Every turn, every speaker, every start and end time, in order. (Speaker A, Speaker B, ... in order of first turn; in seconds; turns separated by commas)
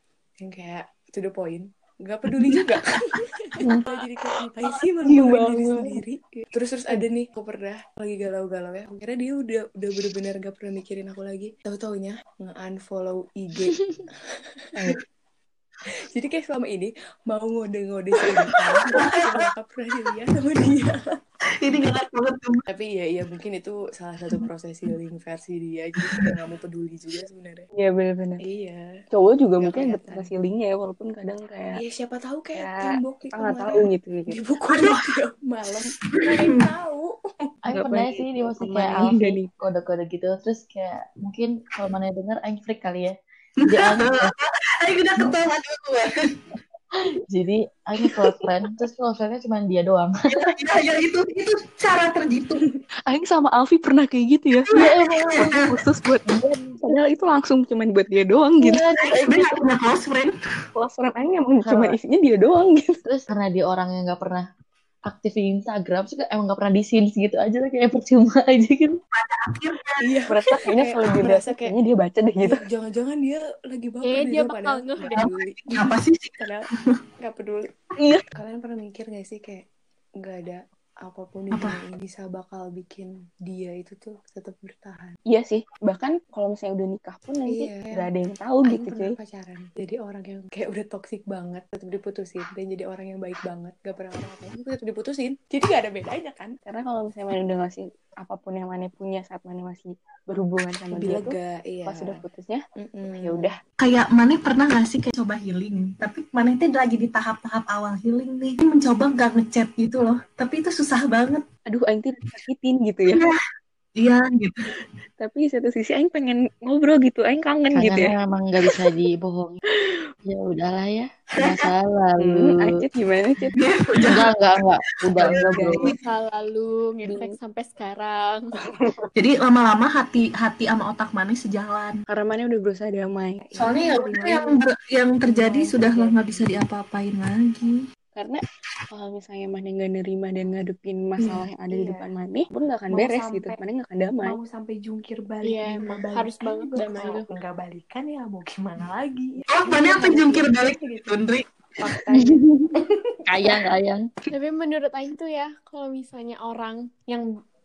Speaker A: 0.4-13.8, Speaker B: 2.3-3.4, Speaker C: 5.0-6.0, Speaker A: 16.0-21.1, Speaker B: 18.2-19.5, Speaker B: 21.5-22.6, Speaker A: 22.7-27.7, Speaker B: 26.0-26.4, Speaker C: 27.8-28.4, Speaker A: 28.4-28.9, Speaker C: 29.1-31.8, Speaker A: 29.6-30.3, Speaker A: 31.7-37.5, Speaker C: 32.5-34.4, Speaker B: 34.7-35.1, Speaker B: 35.7-36.7, Speaker D: 37.6-43.2, Speaker C: 37.7-39.5, Speaker B: 43.6-46.4, Speaker D: 43.7-44.3, Speaker D: 47.3-50.3, Speaker B: 50.3-52.6, Speaker C: 53.1-54.7, Speaker B: 54.7-55.7, Speaker D: 54.7-55.6, Speaker C: 55.5-56.3, Speaker D: 56.2-56.9, Speaker C: 56.8-58.8, Speaker D: 58.6-59.6, Speaker B: 59.0-60.4, Speaker C: 60.7-63.0, Speaker D: 61.6-62.0, Speaker D: 63.0-64.5, Speaker D: 65.1-69.0, Speaker B: 69.1-70.2, Speaker A: 70.0-71.7, Speaker C: 70.3-72.6, Speaker A: 72.4-76.7, Speaker E: 74.0-75.3, Speaker B: 75.1-77.0, Speaker A: 77.2-77.8, Speaker A: 78.3-79.6, Speaker A: 80.2-85.2, Speaker B: 81.5-81.8, Speaker C: 85.3-89.1, Speaker A: 87.5-88.1, Speaker A: 88.6-96.6, Speaker C: 96.7-101.3, Speaker A: 100.9-102.2, Speaker C: 101.8-103.5, Speaker A: 102.8-103.5, Speaker B: 103.8-111.5, Speaker C: 111.7-113.3, Speaker B: 113.1-113.4, Speaker B: 114.0-114.8, Speaker C: 115.2-118.1, Speaker D: 117.7-119.6, Speaker D: 120.2-122.8, Speaker B: 121.3-121.7, Speaker C: 122.2-123.5, Speaker B: 123.5-124.3, Speaker D: 124.0-125.9, Speaker B: 124.9-126.0, Speaker C: 125.2-125.9, Speaker E: 125.9-128.5, Speaker C: 127.0-127.3, Speaker C: 128.5-129.0, Speaker B: 129.1-132.0, Speaker C: 132.1-133.4, Speaker A: 133.5-134.6, Speaker B: 133.6-137.8, Speaker A: 135.2-136.6, Speaker C: 138.1-144.4, Speaker A: 141.7-142.1, Speaker A: 142.9-143.6, Speaker A: 144.2-151.2, Speaker E: 145.4-147.3, Speaker B: 149.5-151.8, Speaker A: 151.8-152.4, Speaker D: 152.1-154.1, Speaker E: 154.3-157.3